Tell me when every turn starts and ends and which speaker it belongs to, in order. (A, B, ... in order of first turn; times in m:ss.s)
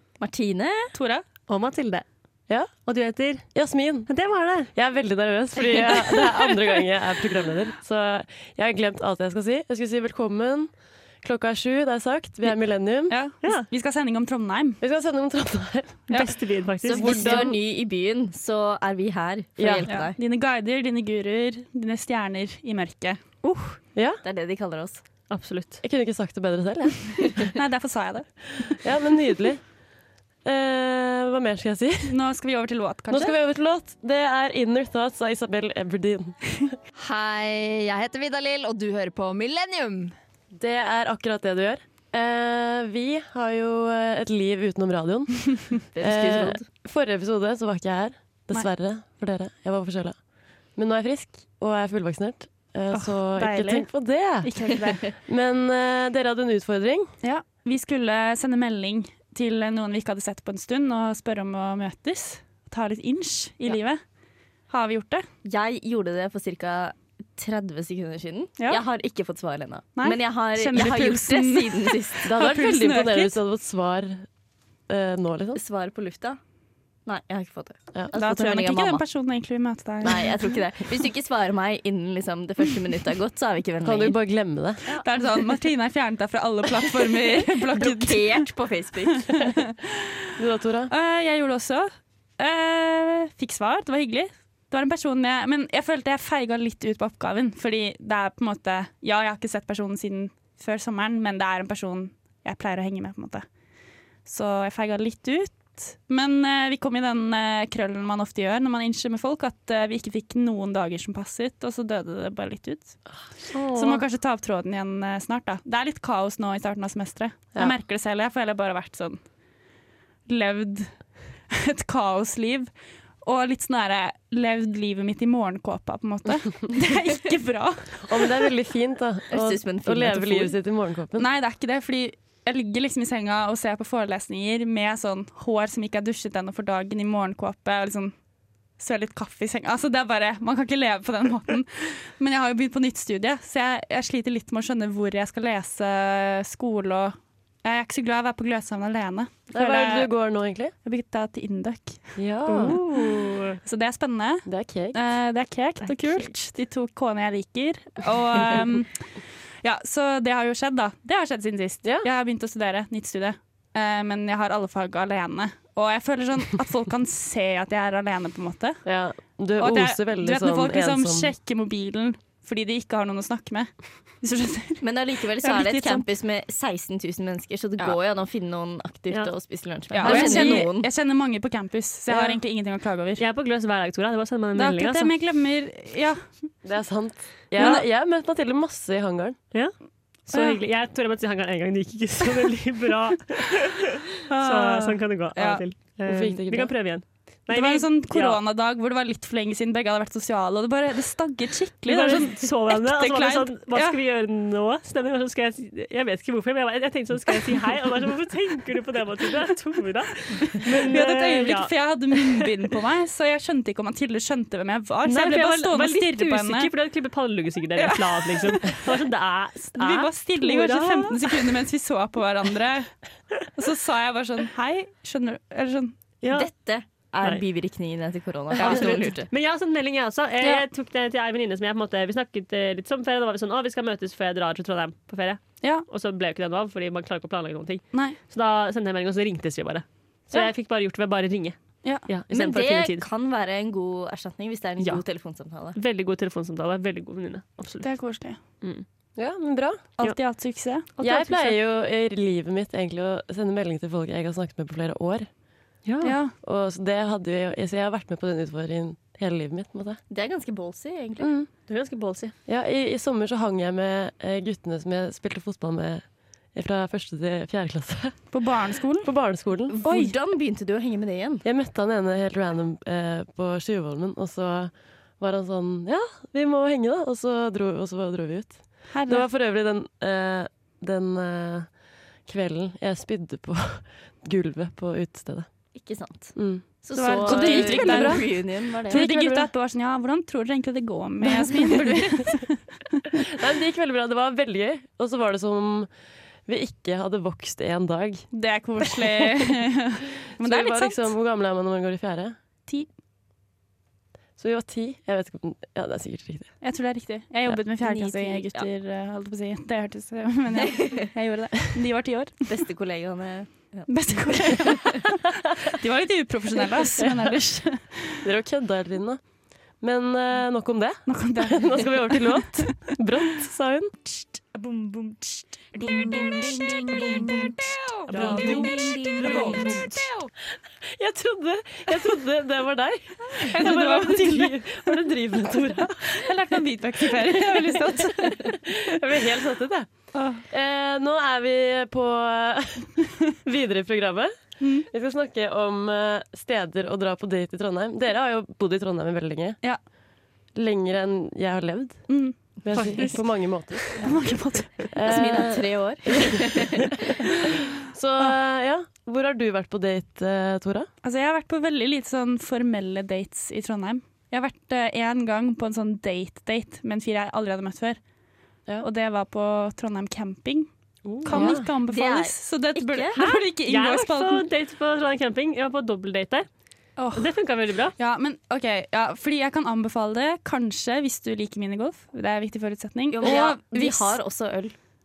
0:00.2-0:00.9 A
0:00.9-0:01.2 B
0:01.5-0:02.0 C
0:02.8-0:03.5 C
0:03.5-0:04.1 D
0:04.1-0:04.7 C
0:04.7-0:13.2 D
0:13.1-0:14.8 B
0:14.8-0:16.0 D
0:16.1-0:17.4 C
0:16.8-0:20.2 A
0:16.9-0:17.6 D
0:19.6-0:19.9 D
0:19.9-0:23.2 B
0:23.4-0:23.8 C
0:23.9-0:24.2 D
0:24.2-0:25.0 A
0:25.3-0:25.8 C
0:25.8-0:27.5 D
0:27.5-0:28.8 B
0:28.6-0:29.6 D
0:30.4-0:32.2 D
0:32.0-0:33.3 B
0:33.1-0:36.4 D
0:37.0-0:40.2 E
0:40.5-0:50.2 D
0:45.9-0:46.6 A
0:50.8-0:57.1 D
0:52.9-0:55.1 B
0:57.2-1:04.0 B
1:04.7-1:05.2 B
1:05.4-1:12.3 A
1:08.6-1:08.8 B
1:10.0-1:13.3 B
1:12.2-1:14.3 D
1:14.9-1:15.6 D
1:15.5-1:16.4 A
1:17.0-1:19.0 A
1:18.1-1:20.6 B
1:20.0-1:24.2 A
1:23.8-1:24.8 D
1:24.9-1:28.4 B
1:27.8-1:29.2 A
1:29.3-1:29.6 B
1:30.4-1:30.9 D
1:30.9-1:31.9 B
1:32.4-1:43.4 B
1:44.2-1:53.0 B
1:53.1-1:54.0 D
1:53.7-1:59.2 B
2:00.3-2:00.9 B
2:01.5-2:02.7 B
2:03.2-2:08.4 B
2:08.0-2:11.3 D
2:09.3-2:10.5 A
2:11.2-2:18.2 B
2:18.8-2:30.1 B
2:29.5-2:30.7 D
2:30.8-2:32.1 B
2:32.2-2:32.8 D
2:32.5-2:33.6 C
2:33.6-2:39.0 B
2:34.4-2:35.0 D
2:35.8-2:36.3 C
2:39.6-2:48.8 B
2:48.8-2:51.3 D
2:49.6-2:54.8 B
2:54.8-3:00.9 A
2:55.4-2:56.0 B
2:59.9-3:03.2 B
3:00.0-3:00.5 C
3:00.0-3:00.6 D
3:02.1-3:02.4 D
3:03.2-3:05.1 C
3:04.5-3:06.3 B
3:06.6-3:09.4 D
3:07.6-3:07.8 B
3:10.2-3:18.4 C
3:10.3-3:10.6 B
3:14.3-3:15.6 B
3:16.0-3:16.7 D
3:17.5-3:24.0 B
3:21.9-3:32.4 C
3:30.5-3:36.7 B
3:35.0-3:41.6 C
3:37.8-3:38.8 B
3:39.7-3:42.9 B
3:43.5-3:46.0 B
3:46.2-3:46.5 C
3:46.3-3:49.3 A
3:48.6-4:03.0 C
3:48.6-3:49.1 B
4:02.3-4:05.8 A
4:05.7-4:07.9 C
4:07.8-4:08.4 B
4:09.2-4:09.9 D
4:10.0-4:10.9 B
4:11.0-4:11.5 C
4:11.0-4:15.3 D
4:15.8-4:16.2 C
4:16.0-4:16.3 B
4:16.4-4:20.0 D
4:20.1-4:21.3 A
4:21.2-4:21.5 D
4:21.7-4:22.3 C
4:22.5-4:28.3 D
4:28.3-4:29.1 B
4:29.0-4:29.7 D
4:29.7-4:31.4 A
4:29.8-4:30.1 B
4:31.4-4:41.7 D
4:38.9-4:39.2 B
4:42.2-4:45.5 D
4:45.7-4:49.0 A
4:46.3-4:49.5 D
4:46.9-4:53.0 B
4:51.4-4:52.2 D
4:53.3-4:55.9 D
4:56.5-4:58.3 D
4:58.3-5:01.1 B
4:58.8-4:59.5 D
5:00.4-5:02.4 D
5:04.4-5:06.6 D
5:06.6-5:12.3 B
5:07.8-5:08.7 A
5:12.5-5:14.7 A
5:13.9-5:18.2 B
5:18.2-5:19.2 D
5:19.8-5:23.9 D
5:21.1-5:22.6 B
5:24.6-5:29.9 B
5:28.1-5:30.1 C
5:28.2-5:28.5 D
5:30.8-5:36.3 D
5:33.3-5:34.7 B
5:36.0-5:38.5 B
5:37.0-5:39.9 D
5:40.1-5:40.4 B
5:40.5-5:42.9 D
5:43.4-5:49.6 D
5:44.6-5:44.9 B
5:50.5-5:54.1 D
5:52.1-5:53.2 B
5:52.7-5:53.2 C
5:54.0-5:54.9 B
5:54.9-5:56.5 D
5:55.0-5:56.8 A
5:57.3-6:00.9 D
6:01.0-6:08.0 B
6:08.8-6:10.7 B
6:11.0-6:11.5 C
6:11.2-6:14.4 B
6:11.3-6:11.7 D
6:11.8-6:13.2 A
6:13.2-6:16.5 C
6:17.0-6:17.3 B
6:17.1-6:17.9 C
6:18.0-6:24.2 B
6:23.1-6:24.8 A